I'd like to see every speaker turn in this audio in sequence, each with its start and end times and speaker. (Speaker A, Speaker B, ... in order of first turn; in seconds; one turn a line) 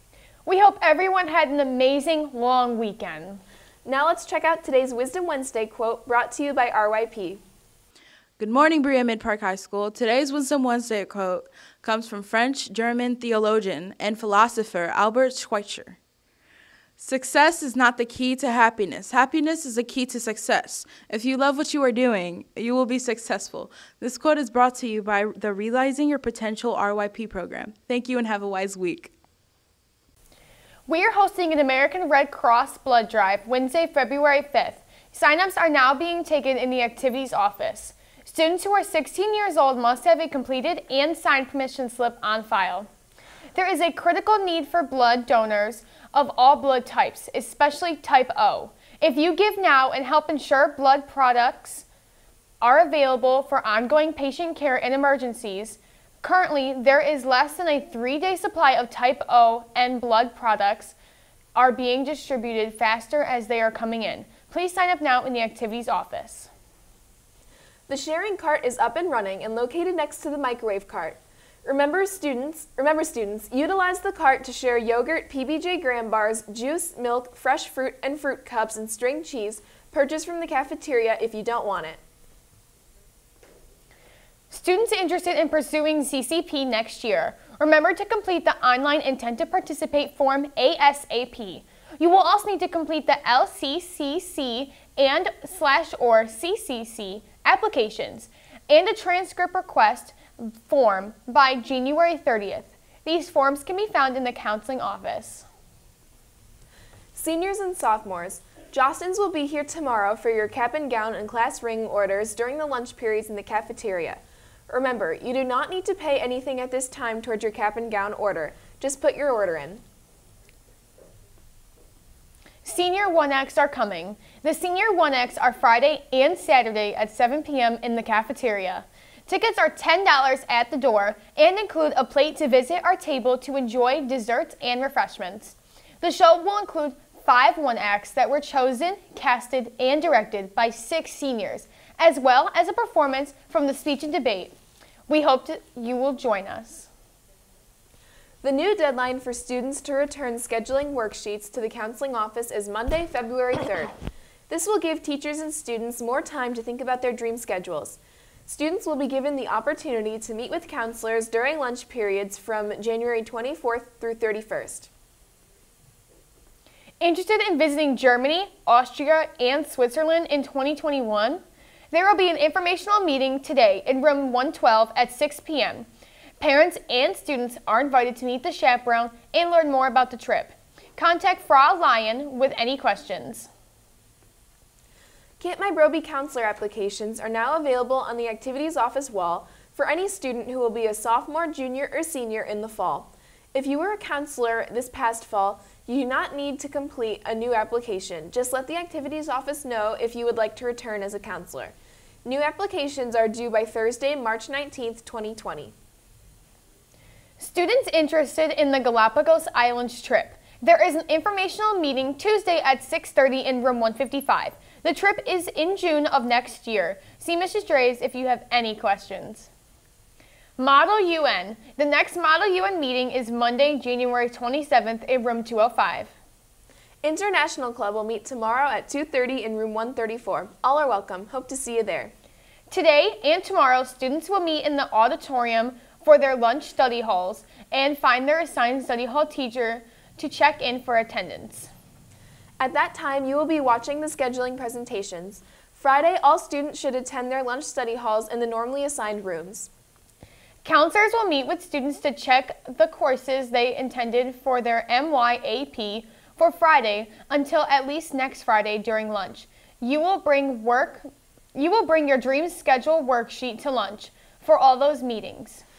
Speaker A: 0.5-3.4
Speaker B: 3.8-7.4
Speaker C: 8.4-16.0
Speaker C: 17.0-29.1
Speaker A: 30.9-42.9
Speaker A: 43.5-51.9
Speaker A: 52.6-60.9
Speaker A: 61.5-66.5
Speaker B: 67.9-82.0
Speaker A: 84.5-105.4
Speaker B: 107.1-119.8
Speaker A: 122.6-144.5
Speaker A: 145.1-146.9
Speaker B: 148.4-153.9
Speaker B: 154.5-164.9
Speaker A: 167.0-175.9
Speaker A: 176.4-183.5
Speaker B: 185.4-201.7
Speaker B: 202.2-205.7
Speaker A: 207.4-219.5
Speaker A: 220.6-226.1
Speaker B: 227.0-232.1
Speaker A: 232.7-241.7
Speaker B: 242.6-249.7
Speaker A: 250.6-265.6